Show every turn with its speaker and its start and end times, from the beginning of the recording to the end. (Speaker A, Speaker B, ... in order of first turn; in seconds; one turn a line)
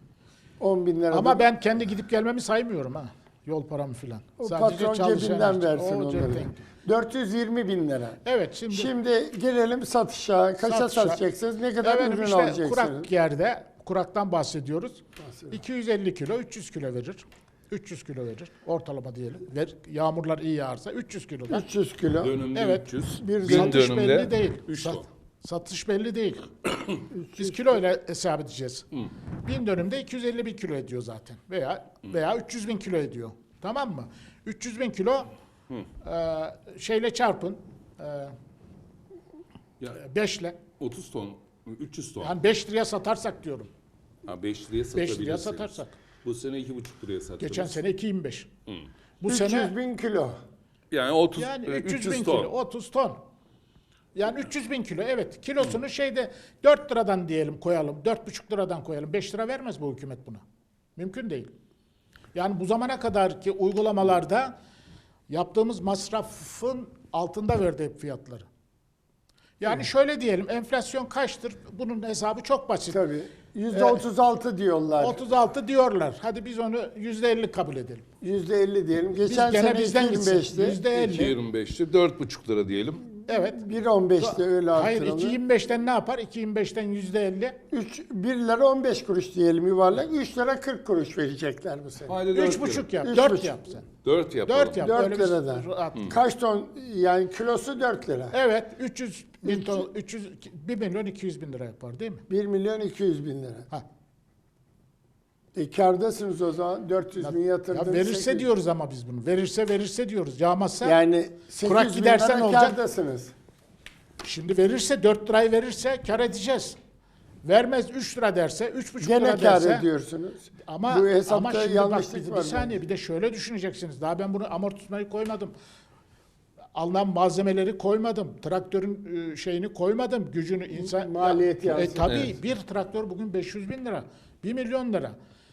Speaker A: 0.6-1.5
Speaker B: 1.1-6.6
Speaker A: 4.4-8.2
Speaker B: 8.2-8.9
Speaker A: 8.7-13.1
Speaker B: 10.6-11.2
Speaker B: 11.8-21.6
Speaker A: 15.2-15.6
Speaker A: 21.5-22.4
Speaker C: 22.2-25.1
Speaker B: 22.5-22.9
Speaker A: 23.2-23.8
Speaker B: 23.4-26.7
Speaker A: 27.1-27.7
Speaker B: 27.4-28.9
Speaker B: 29.4-35.3
Speaker B: 36.0-38.4
Speaker B: 39.9-40.6
Speaker C: 40.8-42.4
Speaker B: 42.2-43.7
Speaker C: 44.2-47.8
Speaker B: 45.0-46.0
Speaker B: 47.4-48.5
Speaker B: 49.2-49.7
Speaker A: 49.3-50.4
Speaker C: 50.9-52.5
Speaker B: 51.4-53.2
Speaker B: 54.1-60.4
Speaker B: 61.0-61.5
Speaker B: 62.3-64.6
Speaker B: 65.3-68.5
Speaker B: 69.6-73.0
Speaker A: 72.9-75.2
Speaker B: 73.7-74.0
Speaker B: 75.0-78.0
Speaker A: 78.2-81.2
Speaker B: 79.2-81.3
Speaker C: 81.0-83.1
Speaker B: 83.3-83.6
Speaker A: 83.4-85.4
Speaker B: 84.2-87.6
Speaker A: 87.7-92.2
Speaker C: 92.1-92.9
Speaker B: 92.3-93.9
Speaker A: 93.0-93.6
Speaker C: 94.0-94.9
Speaker B: 94.5-96.1
Speaker A: 94.8-98.3
Speaker B: 98.3-102.2
Speaker A: 99.4-99.9
Speaker A: 102.3-103.7
Speaker A: 105.5-108.5
Speaker B: 107.2-111.0
Speaker A: 110.8-113.3
Speaker B: 111.6-112.8
Speaker B: 114.2-116.8
Speaker B: 117.4-119.9
Speaker A: 119.0-122.8
Speaker B: 120.7-125.5
Speaker B: 126.8-135.2
Speaker A: 130.7-132.3
Speaker C: 132.1-132.3